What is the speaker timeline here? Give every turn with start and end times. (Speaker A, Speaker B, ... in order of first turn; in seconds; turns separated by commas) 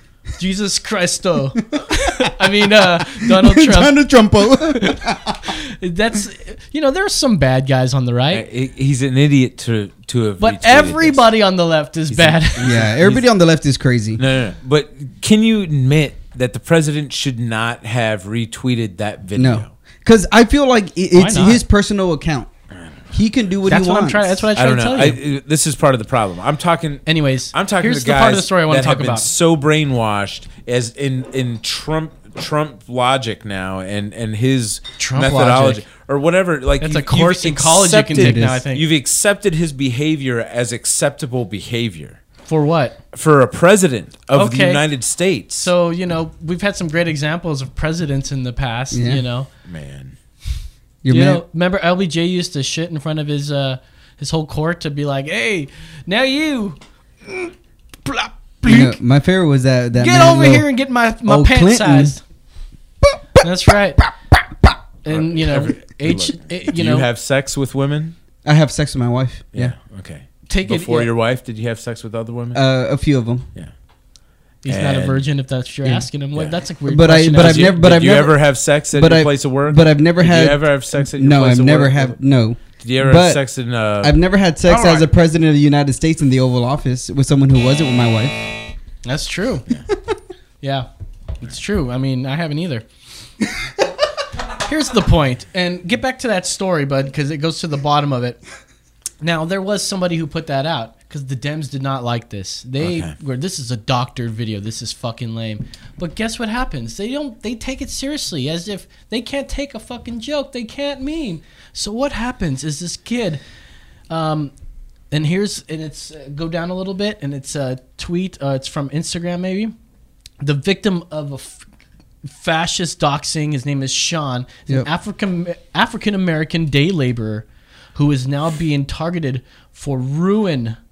Speaker A: 0.4-4.1, Speaker B: 3.0-5.5, Speaker A: 4.7-8.4, Speaker C: 8.3-11.3, Speaker A: 10.4-12.9, Speaker C: 12.1-13.2, Speaker B: 12.6-14.2, Speaker C: 14.2-19.7, Speaker B: 19.4-22.5, Speaker A: 21.1-21.6, Speaker B: 23.1-24.4, Speaker A: 23.7-25.2, Speaker C: 24.5-42.2, Speaker A: 27.1-29.3, Speaker A: 35.0-35.8, Speaker A: 36.8-38.9, Speaker B: 38.1-38.6, Speaker A: 42.5-43.0, Speaker C: 43.1-45.7, Speaker A: 44.3-44.8, Speaker A: 45.6-49.5, Speaker B: 48.9-49.2, Speaker C: 49.6-50.1, Speaker B: 51.0-51.4, Speaker A: 51.1-57.5, Speaker A: 58.0-59.0, Speaker B: 58.6-60.7, Speaker A: 59.9-62.2, Speaker B: 61.2-62.1, Speaker A: 63.4-64.0, Speaker A: 65.0-67.0, Speaker C: 65.1-68.2, Speaker B: 68.4-69.7, Speaker C: 69.5-72.6, Speaker A: 70.5-71.1, Speaker B: 72.5-73.5, Speaker A: 74.6-77.8, Speaker C: 74.7-75.2, Speaker B: 76.9-83.4, Speaker C: 77.3-82.2, Speaker C: 82.8-84.2, Speaker B: 84.0-88.4, Speaker A: 84.7-85.1, Speaker A: 89.0-89.7, Speaker A: 90.6-90.9, Speaker A: 91.4-92.8, Speaker A: 94.6-98.4, Speaker A: 99.2-113.4, Speaker C: 102.8-103.1, Speaker A: 114.1-114.5, Speaker A: 115.1-119.7, Speaker A: 120.4-121.6, Speaker A: 122.2-130.8